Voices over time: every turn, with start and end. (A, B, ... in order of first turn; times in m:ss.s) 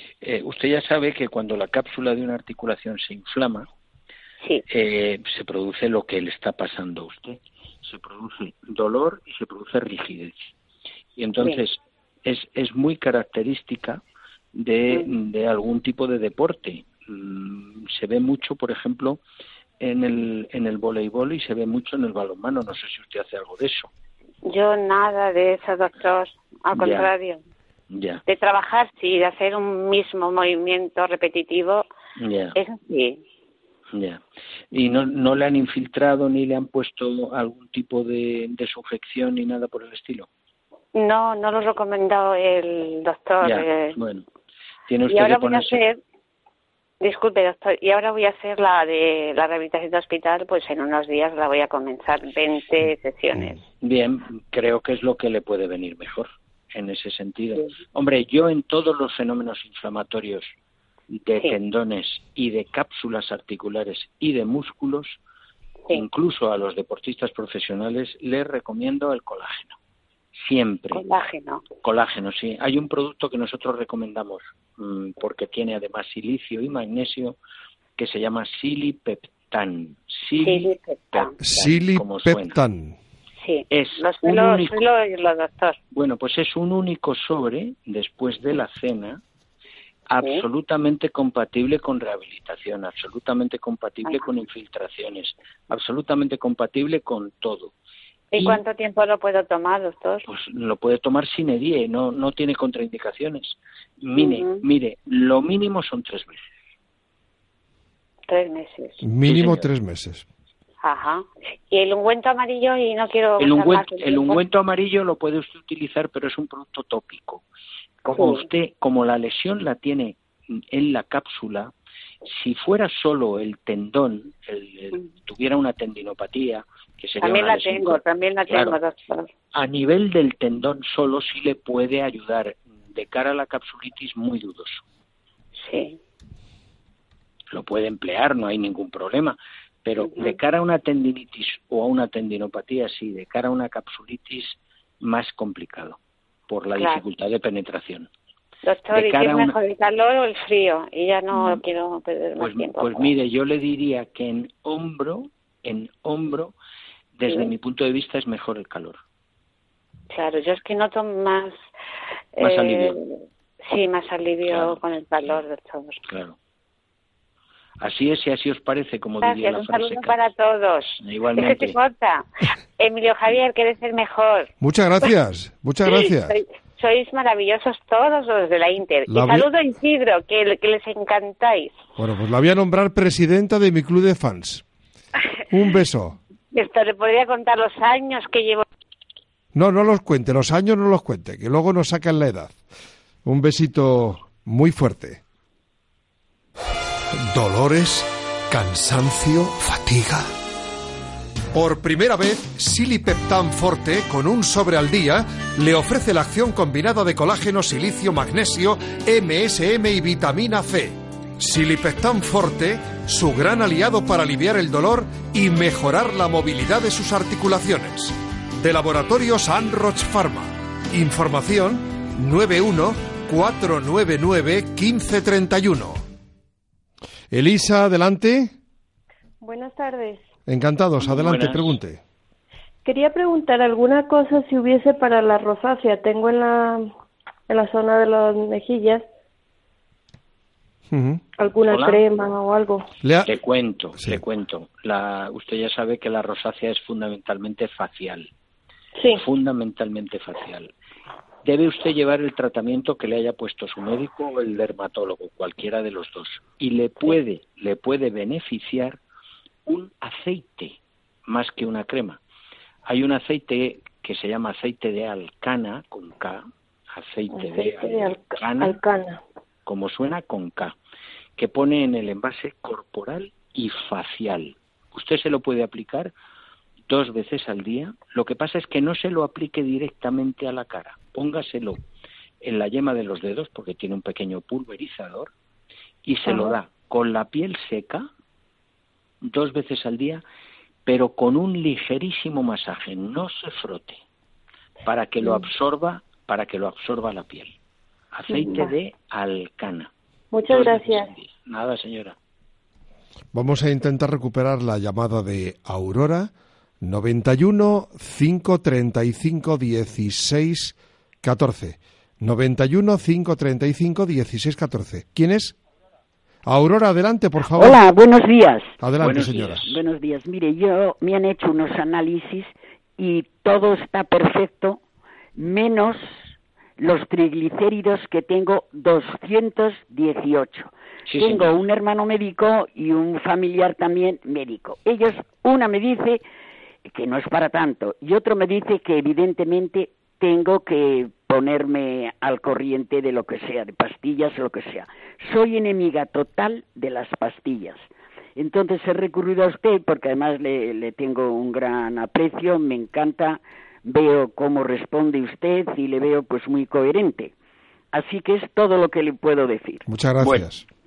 0:00.2-0:03.7 A
0:04.7-0:10.5 A
0:11.2-0:14.0 A
0:14.5-0:19.2 A
0:19.8-0:23.9 A
0:24.5-0:27.4 B
0:26.7-0:27.1 A
0:27.9-0:28.2 A
0:28.2-0:31.9 B
0:32.2-0:32.6 A
0:32.5-0:33.2 B
0:33.9-0:40.3 A
0:40.9-0:44.0 B
0:43.4-0:44.2 A
0:44.9-0:45.8 A
0:45.1-0:46.0 B
0:47.0-0:53.6 B
0:53.8-1:00.5 A
1:01.1-1:05.2 A
1:05.9-1:09.8 A
1:10.3-1:11.0 A
1:10.9-1:11.6 B
1:11.8-1:17.4 A
1:18.0-1:22.6 A
1:20.4-1:21.3 B
1:21.4-1:23.0 C
1:23.4-1:25.8 B
1:23.7-1:24.8 A
1:25.9-1:29.2 A
1:30.1-1:37.7 A
1:34.0-1:34.3 B
1:38.3-1:40.2 B
1:38.4-1:38.6 A
1:40.3-1:46.6 A
1:44.2-1:44.6 B
1:48.3-1:49.0 B
1:49.0-1:50.2 C
1:49.2-1:49.7 A
1:50.8-1:54.4 B
1:53.4-1:57.4 A
1:58.0-2:01.7 A
1:58.1-1:58.5 B
2:02.2-2:08.8 A
2:07.2-2:09.3 B
2:09.5-2:14.8 A
2:15.6-2:16.0 B
2:17.5-2:28.1 A
2:20.0-2:20.4 B
2:26.8-2:27.0 B
2:28.6-2:33.1 B
2:28.9-2:29.6 A
2:31.3-2:31.6 A
2:32.4-2:36.5 A
2:37.2-2:39.0 A
2:40.1-2:41.6 B
2:42.4-2:46.0 B
2:42.4-2:43.0 A
2:44.5-2:45.4 A
2:46.1-2:46.4 A
2:47.8-2:50.2 A
2:49.2-2:54.5 B
2:51.0-2:51.8 A
2:54.6-2:56.3 C
2:55.8-3:01.7 B
2:59.1-2:59.5 C
3:02.0-3:04.6 C
3:05.5-3:06.2 C
3:06.5-3:08.6 B
3:09.5-3:12.6 C
3:13.2-3:15.2 C
3:17.1-3:20.3 C
3:21.5-3:46.0 C
3:47.3-3:48.5 C
3:49.4-3:50.2 D
3:50.5-3:52.0 C
3:51.0-3:51.7 A
3:52.8-3:56.9 D
3:57.5-3:59.0 D
4:00.9-4:01.2 C
4:01.4-4:02.9 D
4:01.7-4:02.0 A
4:03.0-4:03.3 C
4:03.2-4:08.3 A
4:09.0-4:09.2 D
4:09.1-4:10.7 A
4:11.4-4:19.0 A
4:19.6-4:22.2 A
4:22.8-4:28.8 A
4:27.3-4:29.2 D
4:29.6-4:30.8 A
4:31.4-4:36.1 A
4:36.9-4:41.8 A
4:42.4-4:45.3 A
4:46.0-4:48.1 A
4:46.3-4:46.5 D
4:49.2-4:50.2 A
4:50.8-4:54.0 A
4:54.8-4:57.5 A
4:58.1-4:59.9 A
4:58.3-4:58.7 D
5:00.3-5:01.1 D
5:00.5-5:02.2 A
5:03.3-5:15.6 C
5:16.4-5:17.8 C
5:17.5-5:18.7 E
5:18.8-5:19.7 C
5:19.0-5:19.6 A
5:19.6-5:24.8 E
5:25.4-5:26.2 E
5:26.8-5:36.2 E
5:31.1-5:31.5 A
5:36.9-5:57.3 E
5:57.9-5:59.8 E
5:59.9-6:00.6 C